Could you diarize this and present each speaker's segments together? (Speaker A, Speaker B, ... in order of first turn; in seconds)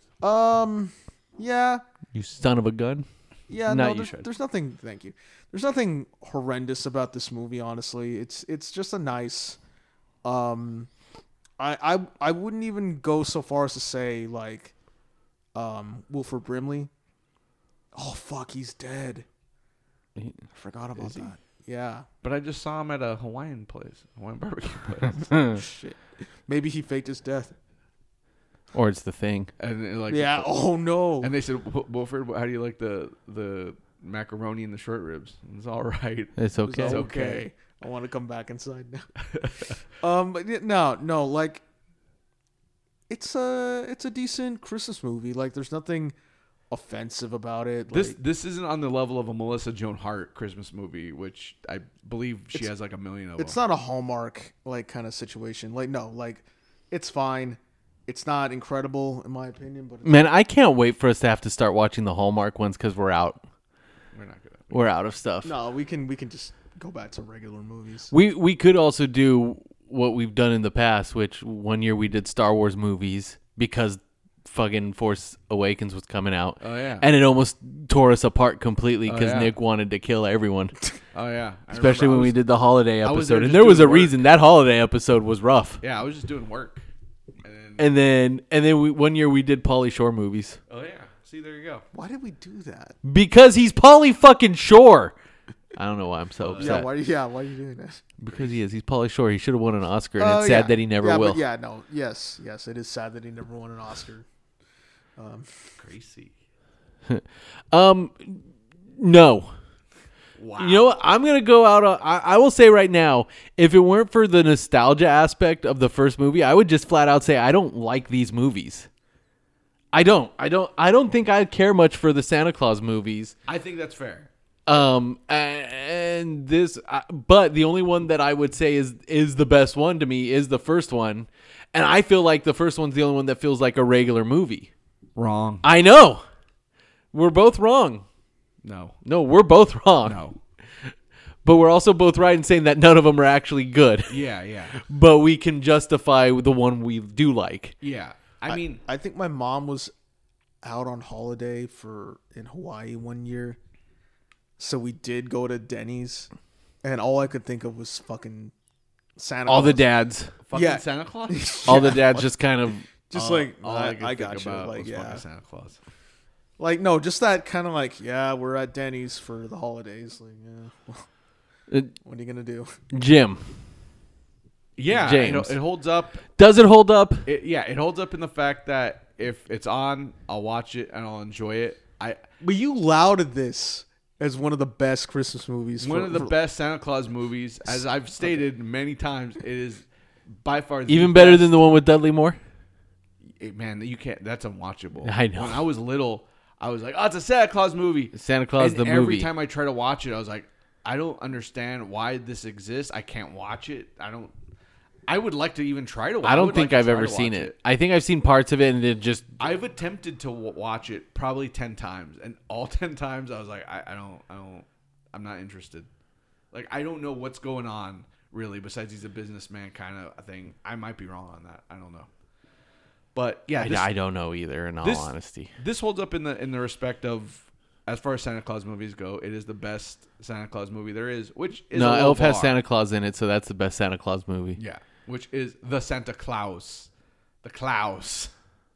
Speaker A: 0.2-1.8, 3.5-9.6, 10.2-10.9, 11.6-14.7, 15.5-16.9, 17.9-19.2, 20.5-22.1, 25.4-27.5, 30.1-31.3, 36.7-39.1, 40.0-41.6, 43.1-46.1, 46.7-48.1, 53.4-60.3, 65.4-68.1, 91.9-93.0, 96.6-98.1, 100.2-104.2, 105.2-105.5, 148.5-149.9, 150.6-153.6, 154.6-156.3, 156.8-158.5, 159.2-159.9, 160.5-162.2, 163.1-165.2, 166.6-171.1, 172.0-172.8, 182.4-186.3
Speaker B: 2.1-3.0, 3.7-4.2, 20.2-20.4, 25.3-25.6, 28.7-29.5, 36.4-37.0, 60.0-63.4, 64.7-65.5, 68.1-80.8, 81.7-85.8, 87.8-90.6, 93.0-95.1, 95.8-96.9, 98.2-101.4, 107.1-108.5, 109.0-109.5, 110.6-118.9, 119.9-123.3, 124.7-134.7, 135.6-136.2, 137.1-138.0, 139.0-140.2, 141.4-144.2, 144.8-147.7, 159.5-160.3, 161.6-162.9, 171.7-171.9, 172.9-173.5, 174.9-175.6, 176.3-177.3, 190.9-192.4, 195.0-195.6, 198.1-199.3, 206.2-209.4, 223.6-225.5, 231.7-234.6
Speaker C: 21.0-21.3, 22.2-25.3, 29.6-30.6, 31.2-37.5, 39.3-39.8, 47.9-53.6, 64.1-64.8, 76.6-77.1, 79.0-79.5, 81.1-82.4, 83.0-84.2, 85.8-86.8, 87.4-87.9, 90.7-91.8, 96.4-96.8, 105.8-106.3, 110.4-111.0, 123.5-124.3, 135.2-135.6, 138.6-139.0, 140.0-140.4, 144.1-144.8, 147.8-148.8, 160.4-162.2, 163.1-165.8, 174.8-176.2, 177.3-182.2, 185.8-189.8, 190.4-191.5, 193.4-204.3, 205.1-207.5, 209.4-215.9, 216.5-222.1, 223.1-223.9, 224.8-232.5, 234.6-236.9, 237.4-238.3